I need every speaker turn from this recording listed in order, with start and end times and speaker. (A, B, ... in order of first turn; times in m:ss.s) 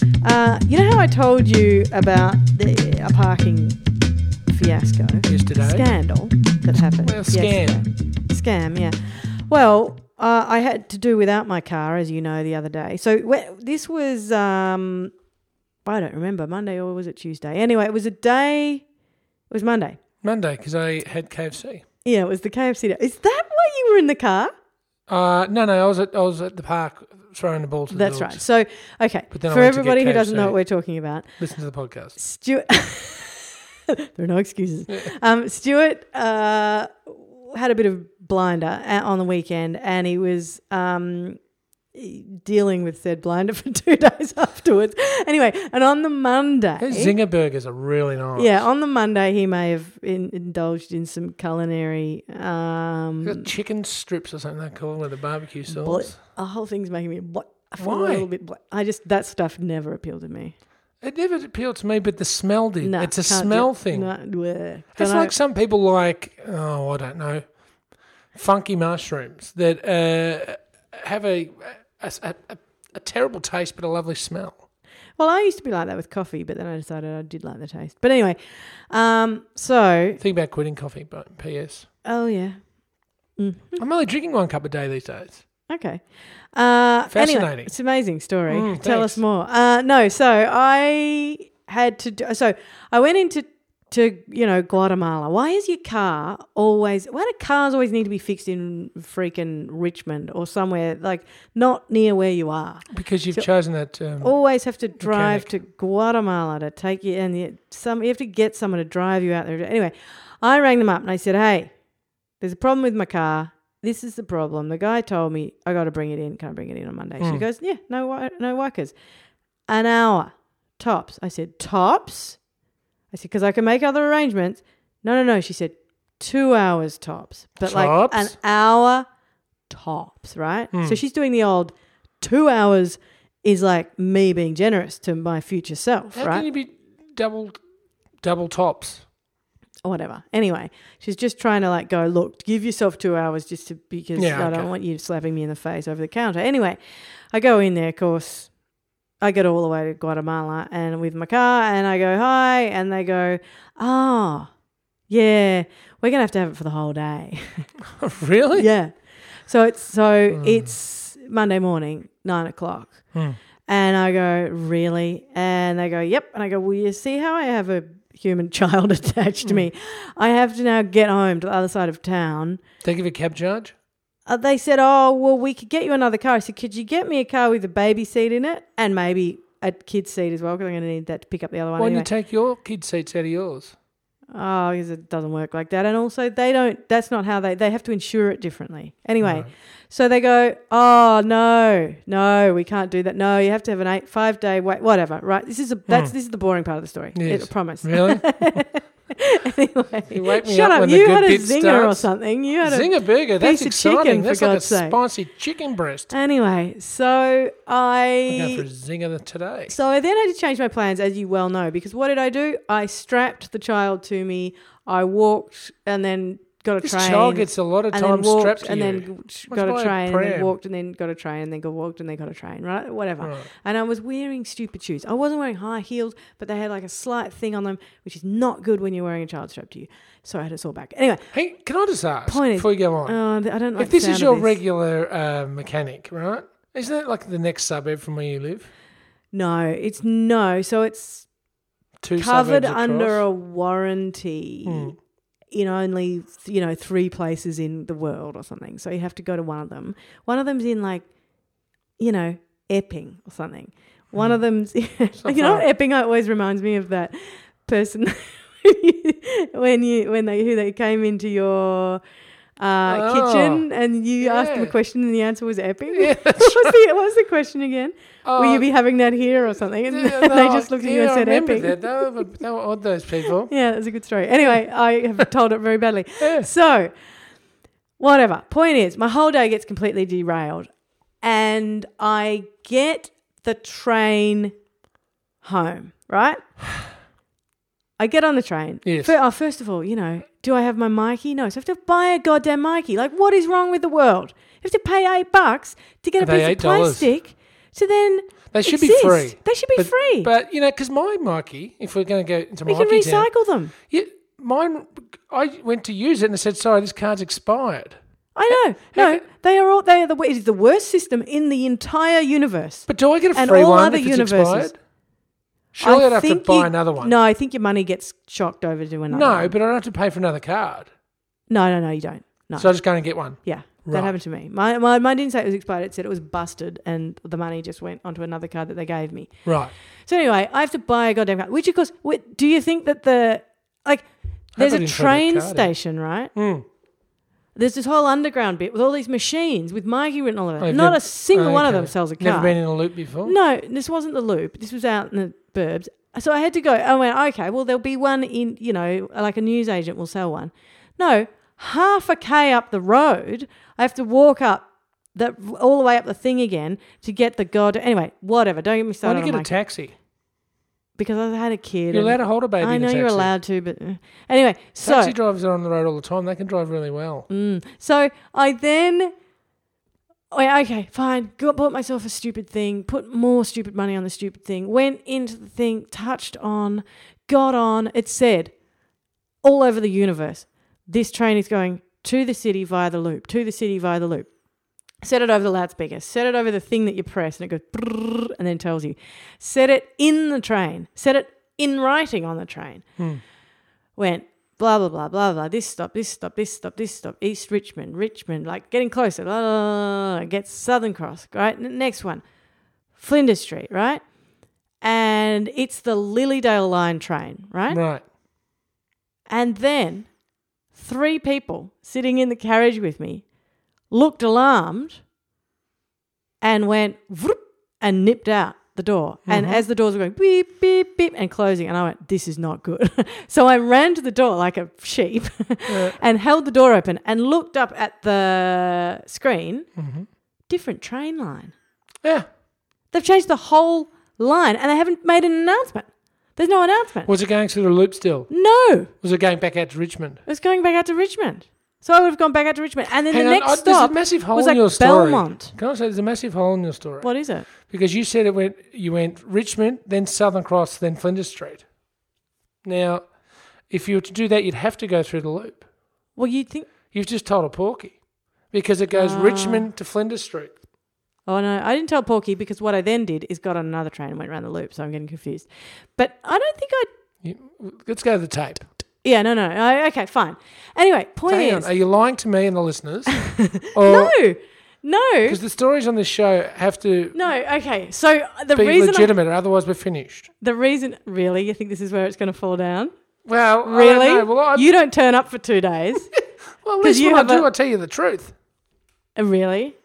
0:00.2-0:03.8 A
0:04.5-0:15.1 A
0:05.3-0:05.9 B
0:07.0-0:07.8 B
0:15.8-0:18.8 A
0:19.5-0:20.0 A
0:20.2-0:21.8 B
0:22.0-0:24.5 A
0:25.1-0:28.4 B
0:27.9-0:31.2 A
0:29.3-0:30.5 B
0:31.4-0:32.2 B
0:32.2-0:33.6 A
0:34.2-0:41.4 A
0:41.9-0:47.1 A
0:46.8-0:48.6 B
0:48.4-0:53.5 A
0:53.2-0:56.2 B
0:55.7-1:00.6 A
0:57.8-0:58.3 B
1:01.0-1:04.1 B
1:02.8-1:05.3 A
1:04.9-1:07.5 B
1:08.3-1:14.6 B
1:15.2-1:18.4 A
1:18.9-1:20.2 A
1:20.2-1:21.8 B
1:22.0-1:22.6 A
1:23.4-1:23.8 A
1:23.8-1:25.4 B
1:25.7-1:26.0 A
1:26.5-1:43.5 A
1:27.1-1:27.7 B
1:28.5-1:29.2 B
1:42.9-1:44.4 B
1:44.2-1:51.7 A
1:45.0-1:45.5 B
1:52.4-1:58.9 A
1:59.7-2:02.4 A
2:03.1-2:09.0 A
2:07.6-2:08.3 B
2:09.7-2:16.5 A
2:10.7-2:11.0 B
2:16.1-2:17.6 B
2:18.2-2:19.0 B
2:19.8-2:26.8 A
2:24.2-2:24.7 B
2:27.3-2:28.5 A
2:29.2-2:34.5 A
2:35.1-2:37.6 A
2:38.0-2:38.7 B
2:38.5-2:38.9 A
2:39.5-2:43.0 A
2:40.3-2:40.7 B
2:43.7-2:52.6 A
2:52.8-2:53.7 B
2:54.3-3:02.1 A
3:01.8-3:03.7 B
3:04.3-3:25.0 A
3:09.2-3:09.5 B
3:15.9-3:16.1 B
3:17.1-3:18.6 B
3:20.1-3:22.1 B
3:22.6-3:26.1 B
3:26.1-3:28.6 A
3:28.3-3:29.8 B
3:29.7-3:51.3 A
3:36.8-3:40.5 B
3:43.2-3:43.5 B
3:51.3-3:53.2 B
3:52.3-3:54.6 A
3:53.8-3:58.7 B
3:59.3-4:01.3 A
4:02.0-4:03.2 B
4:02.2-4:04.9 A
4:04.6-4:05.0 B
4:05.5-4:11.0 A
4:12.0-4:22.0 A
4:15.2-4:15.6 B
4:22.6-4:32.0 A
4:22.9-4:23.6 B
4:24.2-4:24.7 B
4:25.9-4:26.8 B
4:28.2-4:28.6 B
4:29.9-4:33.5 B
4:33.5-4:36.9 A
4:36.2-4:36.5 B
4:38.0-4:40.7 A
4:41.2-4:44.5 A
4:45.4-4:46.4 A
4:48.0-5:00.3 A
4:48.8-4:49.1 B
4:56.2-4:57.1 B
4:58.5-5:03.3 B
5:02.6-5:03.7 A
5:03.9-5:08.0 B
5:08.3-5:14.7 A
5:08.5-5:09.2 B
5:12.9-5:14.7 B
5:15.7-5:17.1 B
5:15.8-5:19.6 A
5:19.1-5:20.9 B
5:21.5-5:29.3 A
5:22.6-5:24.1 B
5:29.4-5:29.7 B
5:30.1-5:34.0 A
5:34.6-5:35.7 B
5:34.6-5:36.3 A
5:36.3-5:36.6 B
5:37.5-5:42.6 A
5:40.6-5:43.3 B
5:43.2-5:59.5 A
5:59.0-5:59.9 B
6:01.0-6:05.2 A
6:01.9-6:03.3 B
6:04.8-6:07.3 B
6:07.3-6:09.1 A
6:10.3-6:18.5 A
6:19.4-6:24.3 A
6:25.0-6:32.8 A
6:34.0-6:42.2 A
6:43.0-6:44.0 A
6:44.8-6:47.8 A
6:47.7-6:48.0 B
6:49.3-6:50.1 A
6:50.7-6:53.2 A
6:53.9-6:55.0 A
6:56.4-7:09.7 A
6:59.2-6:59.6 B
7:05.7-7:06.0 B
7:09.8-7:10.1 B
7:10.5-7:11.5 A
7:12.9-7:17.1 A
7:17.0-7:18.3 B
7:18.3-7:18.9 A
7:19.0-7:20.2 B
7:20.2-7:25.5 A
7:23.1-7:31.6 B
7:27.0-7:27.5 A
7:32.6-7:33.1 B
7:33.7-7:35.6 B
7:36.2-7:36.7 A
7:36.9-7:38.0 B
7:38.5-7:40.6 B
7:38.9-7:39.7 A
7:41.3-7:46.9 A
7:47.2-7:48.7 B
7:49.0-7:51.7 A
7:51.3-7:53.1 B
7:53.1-7:55.4 A
7:53.7-7:54.1 B
7:55.2-7:57.2 B
7:57.1-7:59.1 A
7:58.6-8:00.3 B
8:00.4-8:02.9 A
8:03.3-8:04.7 B
8:03.6-8:06.1 A
8:06.6-8:08.3 B
8:06.8-8:07.5 A
8:09.2-8:09.8 A